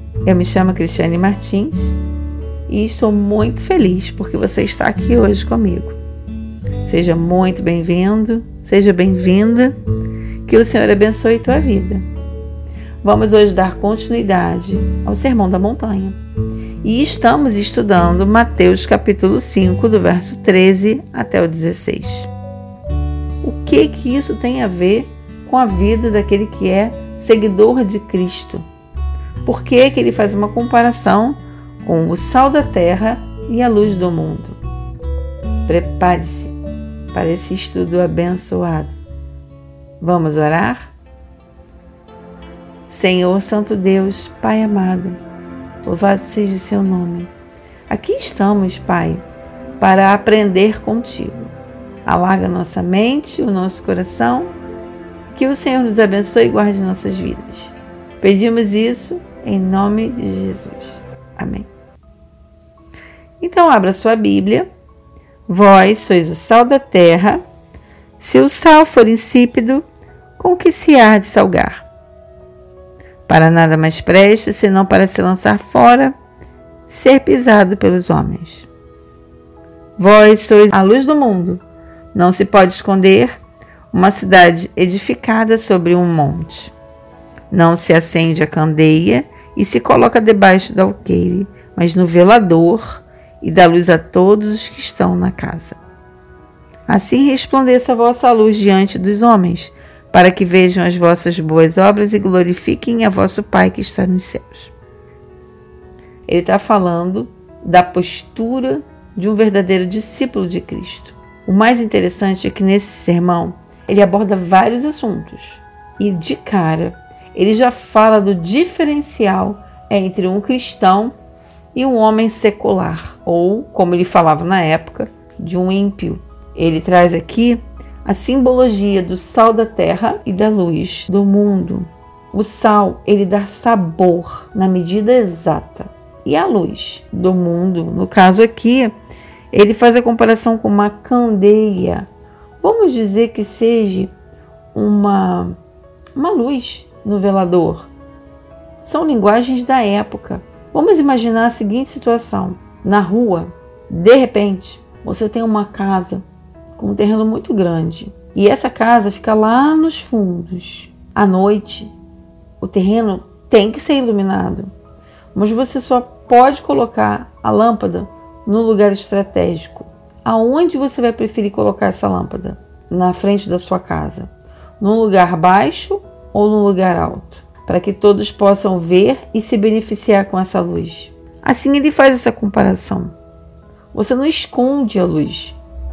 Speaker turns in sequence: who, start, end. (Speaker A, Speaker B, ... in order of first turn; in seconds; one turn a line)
Speaker A: 0.2-2.0
Speaker A: 2.7-6.0
Speaker A: 6.8-9.8
Speaker A: 10.4-12.0
Speaker A: 13.0-16.2
Speaker A: 16.8-22.3
Speaker A: 23.4-28.6
Speaker A: 29.4-34.6
Speaker A: 35.6-36.5
Speaker A: 37.1-39.0
Speaker A: 40.0-40.9
Speaker A: 42.9-45.2
Speaker A: 45.8-47.3
Speaker A: 47.9-49.2
Speaker A: 49.8-51.5
Speaker A: 52.0-54.5
Speaker A: 55.3-61.7
Speaker A: 63.4-64.7
Speaker A: 65.5-67.4
Speaker A: 68.2-69.8
Speaker A: 70.4-71.8
Speaker A: 73.2-76.2
Speaker A: 76.9-78.7
Speaker A: 80.0-81.6
Speaker A: 82.1-83.3
Speaker A: 83.9-86.7
Speaker A: 87.5-95.8
Speaker A: 96.9-104.7
Speaker A: 106.3-121.1
Speaker A: 121.7-138.9
Speaker A: 139.5-142.1
Speaker A: 142.6-144.1
Speaker A: 144.7-145.6
Speaker A: 146.2-147.9
Speaker A: 148.8-156.2
Speaker A: 156.8-161.9
Speaker A: 162.6-164.7
Speaker A: 165.3-183.1
Speaker A: 183.9-185.6